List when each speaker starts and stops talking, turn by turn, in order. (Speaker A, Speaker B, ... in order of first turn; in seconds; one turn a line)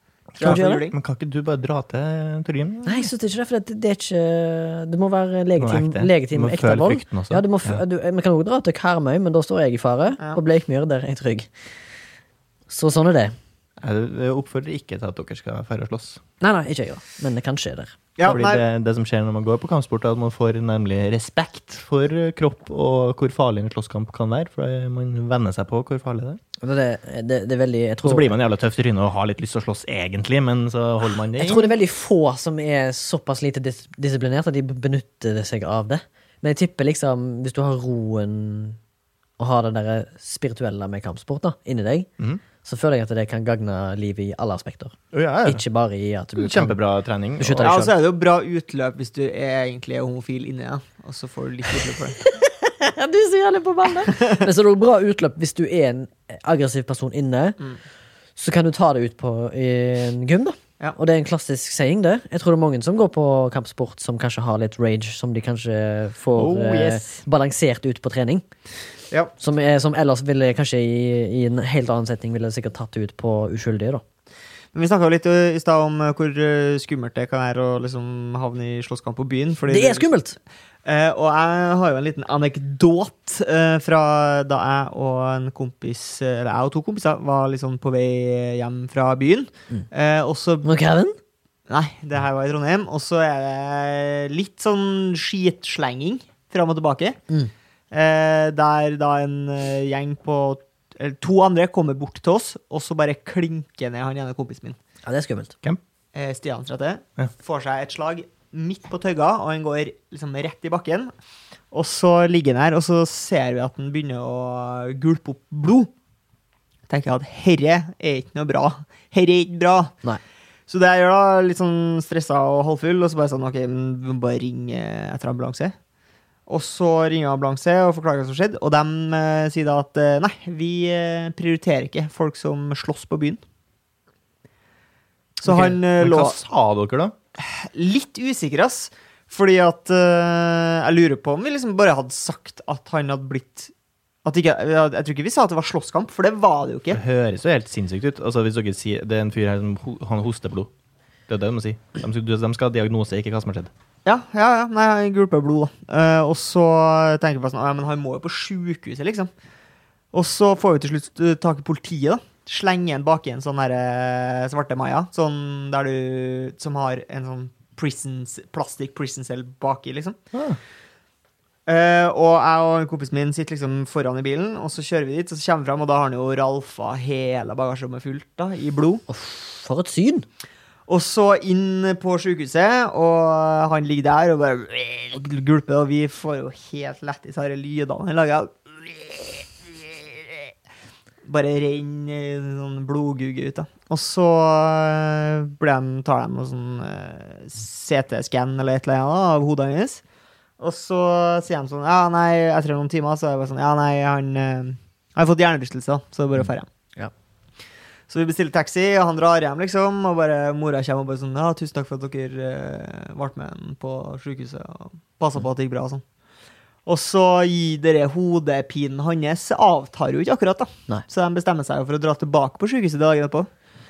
Speaker A: 0.4-0.9
Speaker B: 0.4-3.1
Speaker C: 0.4-0.9
Speaker C: 2.8-11.5
Speaker B: 5.6-7.8
Speaker C: 12.7-13.3
Speaker B: 13.8-16.2
Speaker C: 16.4-17.9
Speaker A: 18.2-18.6
Speaker B: 18.2-26.4
Speaker C: 26.6-28.3
Speaker B: 28.0-31.7
Speaker C: 31.4-38.8
Speaker C: 39.4-42.1
Speaker C: 42.6-46.8
Speaker B: 45.1-45.6
Speaker B: 46.4-47.8
Speaker C: 47.4-47.9
Speaker A: 47.6-52.2
Speaker C: 52.2-57.6
Speaker A: 54.0-54.4
Speaker C: 58.4-68.4
Speaker B: 66.3-67.2
Speaker C: 69.4-74.0
Speaker A: 74.7-80.1
Speaker C: 79.7-80.4
Speaker A: 80.8-90.7
Speaker C: 90.6-91.2
Speaker A: 91.7-97.2
Speaker A: 97.9-104.8
Speaker C: 105.0-105.5
Speaker A: 106.1-111.1
Speaker A: 111.7-115.9
Speaker A: 116.9-120.0
Speaker A: 120.7-125.7
Speaker A: 126.5-133.4
Speaker A: 135.4-136.3
Speaker B: 135.4-137.1
Speaker A: 137.4-143.7
Speaker A: 144.2-147.0
Speaker B: 146.9-150.7
Speaker B: 151.3-153.7
Speaker A: 154.0-159.3
Speaker A: 160.1-170.2
Speaker A: 171.7-179.0
Speaker C: 179.1-180.2
Speaker A: 180.9-190.4
Speaker A: 191.2-200.0
Speaker A: 200.6-206.7
Speaker A: 208.1-216.0
Speaker A: 216.8-223.5